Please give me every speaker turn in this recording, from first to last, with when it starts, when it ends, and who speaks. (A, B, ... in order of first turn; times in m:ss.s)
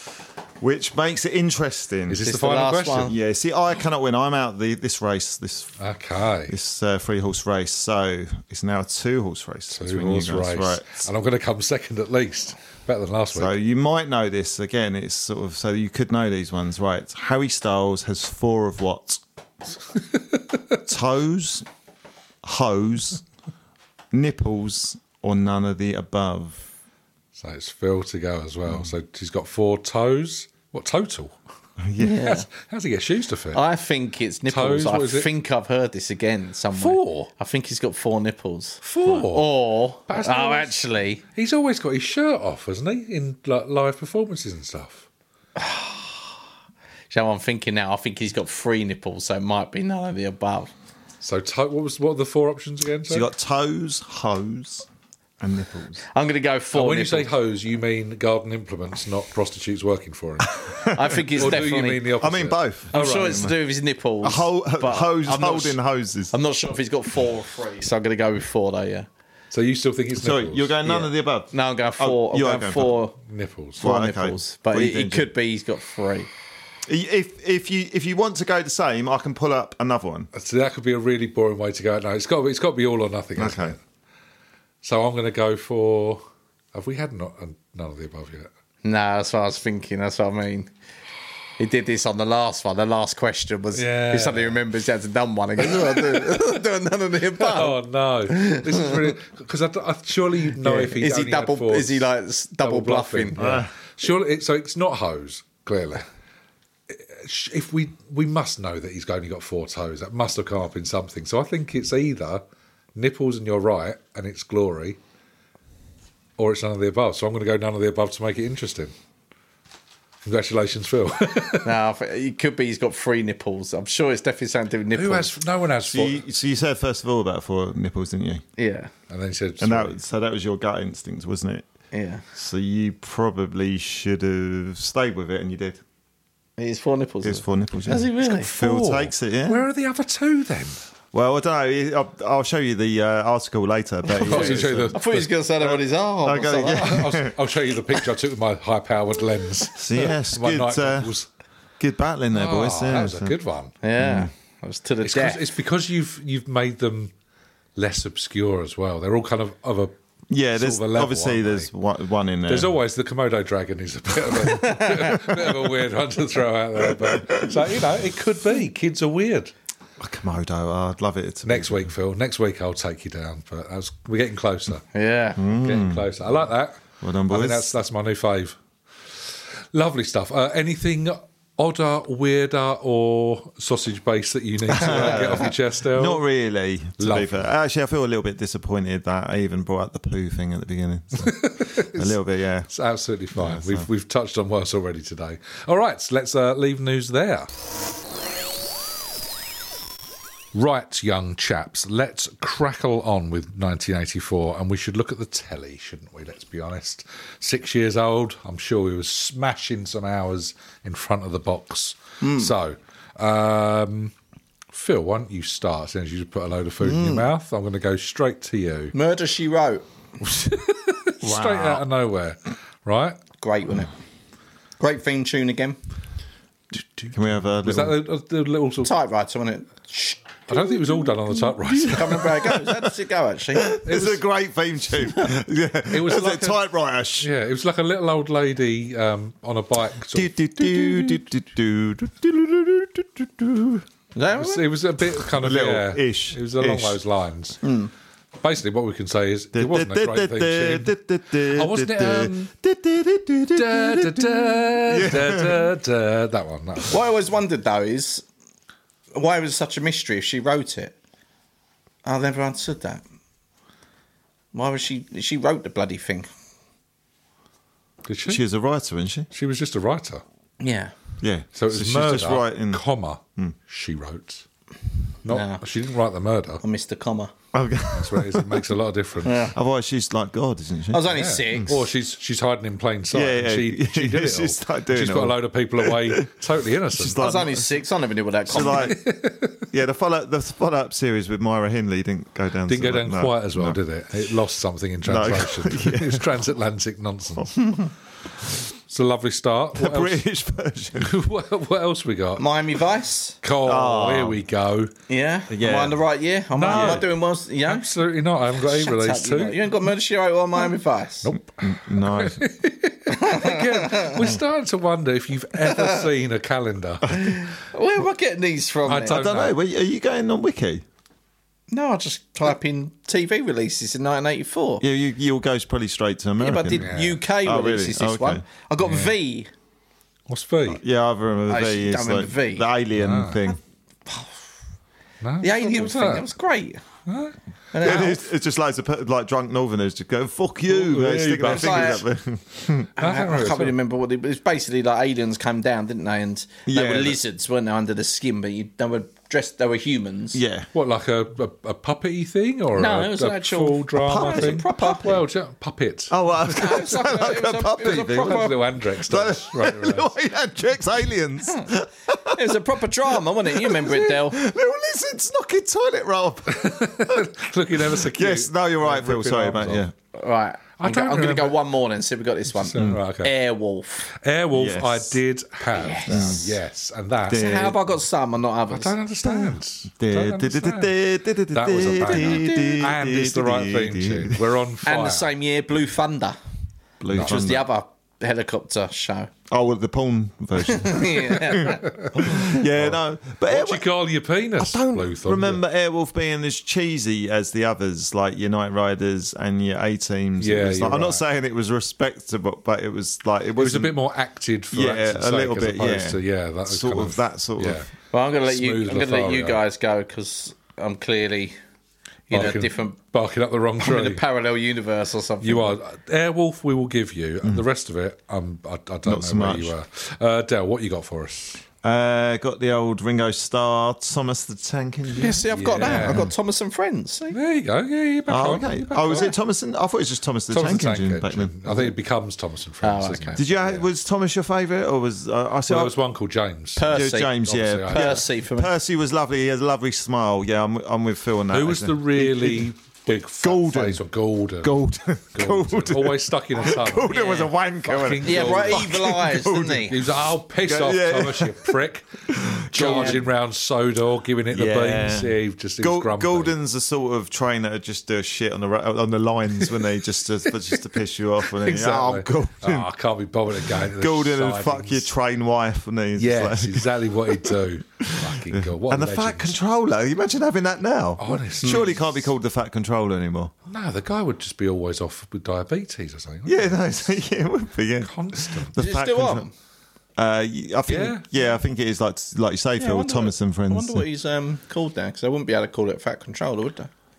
0:00.6-0:02.2 A
0:02.1-0:03.2 B
0:02.2-0:03.2 C
0:03.0-0:05.8 A
0:05.8-0:06.6 B
0:06.5-0:11.1 A
0:09.7-0:13.5 B
0:13.3-0:19.2 A
0:20.8-0:21.7 A
0:22.4-0:23.2 A
0:24.1-0:26.6 A
0:27.4-0:31.4 B
0:31.8-0:32.4 A
0:32.0-0:32.5 C
0:32.3-0:33.6 B
0:33.5-0:41.2 C
0:34.5-0:35.3 B
0:36.7-0:37.3 B
0:38.8-0:45.1 B
0:45.6-0:46.2 C
0:47.1-0:50.7 C
0:51.2-0:53.3 B
0:53.1-0:54.9 A
0:55.4-0:56.0 A
0:56.1-0:57.3 C
0:56.7-1:00.6 B
1:00.6-1:01.6 A
1:00.9-1:02.1 C
1:01.3-1:03.5 B
1:02.2-1:03.6 A
1:02.9-1:05.8 C
1:04.2-1:06.3 A
1:06.3-1:09.1 C
1:09.5-1:10.8 B
1:10.2-1:13.0 A
1:10.8-1:13.2 C
1:13.2-1:13.8 B
1:13.8-1:15.3 A
1:13.8-1:16.3 C
1:16.9-1:20.3 A
1:20.3-1:23.8 B
1:23.4-1:23.8 A
1:24.8-1:26.2 B
1:26.7-1:28.5 B
1:28.8-1:30.7 C
1:31.6-1:39.1 C
1:33.8-1:34.6 B
1:35.6-1:36.6 B
1:37.4-1:42.1 B
1:40.6-1:43.4 C
1:42.6-1:46.1 B
1:43.4-1:43.7 A
1:46.9-1:52.4 B
1:53.0-1:55.0 B
1:56.4-1:58.9 B
2:00.2-2:01.8 B
2:01.6-2:05.4 C
2:04.9-2:06.2 B
2:05.8-2:08.4 A
2:08.6-2:08.9 C
2:09.1-2:10.0 B
2:09.6-2:11.7 A
2:11.9-2:12.2 C
2:12.4-2:15.8 A
2:16.6-2:18.5 C
2:17.2-2:19.6 A
2:18.2-2:20.8 B
2:21.1-2:25.0 A
2:24.1-2:27.1 C
2:24.2-2:25.3 B
2:25.7-2:27.4 A
2:26.7-2:31.3 B
2:29.8-2:31.1 A
2:31.8-2:33.4 A
2:32.3-2:33.7 B
2:33.8-2:35.5 C
2:34.0-2:34.3 A
2:35.0-2:37.1 B
2:37.8-2:40.0 B
2:40.3-2:42.8 A
2:40.5-2:41.7 B
2:42.5-2:49.5 B
2:44.4-2:45.2 C
2:44.5-2:45.7 A
2:46.8-2:47.6 A
2:50.0-2:51.9 A
2:51.4-2:54.8 B
2:54.9-2:55.4 C
2:55.4-2:56.1 A
2:55.6-2:58.6 B
2:57.0-2:57.7 A
2:59.7-3:06.2 B
3:04.6-3:12.7 A
3:07.0-3:07.5 B
3:11.2-3:17.5 B
3:13.3-3:13.9 A
3:20.5-3:34.1 B
3:32.2-3:32.5 C
3:34.7-3:38.9 B
3:36.8-3:37.2 C
3:38.9-3:39.8 C
3:40.2-3:43.2 B
3:41.2-3:41.8 A
3:43.4-3:43.9 C
3:44.8-3:45.8 C
3:46.7-3:48.9 B
3:47.1-3:48.0 A
3:48.8-3:53.8 C
3:50.5-3:52.6 B
3:53.6-3:57.3 A
3:53.8-3:54.2 B
3:55.9-3:56.6 B
3:57.2-4:01.2 B
4:00.1-4:03.8 A
4:04.2-4:04.7 C
4:04.3-4:07.6 B
4:05.1-4:07.0 A
4:07.6-4:07.9 C
4:08.4-4:10.9 B
4:09.5-4:15.6 A
4:11.4-4:12.5 B
4:13.5-4:17.1 B
4:16.9-4:18.2 C
4:19.1-4:21.0 C
4:22.0-4:23.0 C
4:24.5-4:26.3 C
4:28.1-4:28.4 B
4:28.3-4:29.3 A
4:29.3-4:30.2 B
4:30.6-4:30.9 C
4:31.2-4:32.8 A
4:31.6-4:34.4 B
4:35.2-4:36.6 B
4:35.3-4:35.6 C
4:36.6-4:37.3 C
4:37.5-4:38.6 A
4:38.0-4:39.5 B
4:39.2-4:39.6 C
4:39.5-4:41.6 A
4:40.9-4:41.8 C
4:41.1-4:47.4 B
4:43.1-4:46.3 A
4:46.9-4:47.8 A
4:47.2-4:49.0 C
4:48.5-4:49.0 A
4:48.6-4:49.7 B
4:49.7-4:53.8 A
4:52.7-4:57.6 B
4:55.0-4:56.4 A
4:57.6-4:57.9 C
4:58.5-5:00.2 B
4:59.8-5:01.2 A
5:01.0-5:02.6 B
5:02.4-5:03.4 C
5:03.4-5:04.9 B
5:03.6-5:04.4 A
5:05.1-5:07.9 C
5:05.5-5:06.0 A
5:06.6-5:09.7 B
5:06.7-5:07.1 A
5:08.5-5:11.3 C
5:11.2-5:17.1 B
5:11.6-5:12.4 A
5:13.1-5:14.3 C
5:15.6-5:16.1 C
5:17.1-5:19.2 C
5:18.9-5:19.6 B
5:19.1-5:20.8 A
5:21.7-5:24.8 C
5:24.8-5:28.4 A
5:26.4-5:29.5 C
5:26.8-5:27.2 B
5:28.8-5:29.1 B
5:30.3-5:30.8 B
5:30.7-5:33.6 A
5:31.5-5:32.7 C
5:33.0-5:33.5 B
5:35.2-5:36.3 B
5:35.4-5:36.8 C
5:37.1-5:37.4 B
5:37.7-5:38.2 C
5:37.8-5:42.9 A
5:40.7-5:42.1 B
5:41.5-5:42.0 C
5:43.0-5:43.8 B
5:43.0-5:50.4 C
5:46.7-5:47.2 A
5:50.3-5:50.7 A
5:50.7-5:56.9 B
5:52.8-5:55.2 C
5:54.0-5:55.1 A
5:56.1-6:02.5 A
5:56.5-5:58.6 C
5:57.8-6:00.1 B
6:02.3-6:04.4 C
6:03.5-6:09.9 A
6:06.5-6:09.9 B
6:10.1-6:14.1 C
6:10.8-6:11.6 B
6:12.5-6:13.4 B
6:12.8-6:13.0 A
6:14.2-6:17.8 B
6:14.5-6:15.2 A
6:15.7-6:16.4 C
6:16.1-6:16.6 A
6:17.3-6:19.0 C
6:17.3-6:17.7 A
6:18.7-6:20.9 B
6:19.2-6:24.4 A
6:21.5-6:25.3 B
6:22.1-6:22.8 C
6:24.8-6:26.4 C
6:27.0-6:27.7 A
6:27.1-6:27.6 B
6:27.2-6:29.3 C
6:29.5-6:33.9 A
6:30.6-6:32.5 C
6:31.4-6:35.6 B
6:34.6-6:44.0 A
6:40.4-6:41.2 B
6:43.6-6:47.9 B
6:44.7-6:47.8 A
6:48.1-6:51.6 C
6:48.4-6:49.6 B
6:52.3-6:53.0 C
6:52.3-6:54.2 B
6:53.8-6:55.8 C
6:55.4-7:01.6 B
6:59.0-6:59.8 A
7:01.8-7:06.3 A
7:05.2-7:07.4 C
7:05.5-7:06.3 B
7:07.3-7:09.3 B
7:08.3-7:11.9 A
7:10.5-7:13.9 B
7:12.8-7:13.4 C
7:13.4-7:16.0 A
7:15.7-7:18.3 B
7:16.8-7:18.7 C
7:16.9-7:22.7 A
7:21.5-7:24.7 B
7:23.4-7:24.0 A
7:24.6-7:29.8 A
7:25.4-7:36.6 B
7:27.0-7:27.5 C
7:28.2-7:30.1 C
7:30.6-7:33.3 A
7:32.8-7:33.2 C
7:34.5-7:42.9 A
7:40.5-7:40.9 B
7:41.5-7:45.1 B
7:43.7-7:53.5 A
7:46.2-7:49.6 B
7:51.2-7:52.2 B
7:51.6-7:51.9 C
7:53.7-7:56.8 B
7:56.4-7:59.5 A
7:58.0-7:58.7 B
7:58.8-7:59.5 C
8:00.2-8:04.0 A
8:00.9-8:01.2 B
8:02.8-8:06.9 C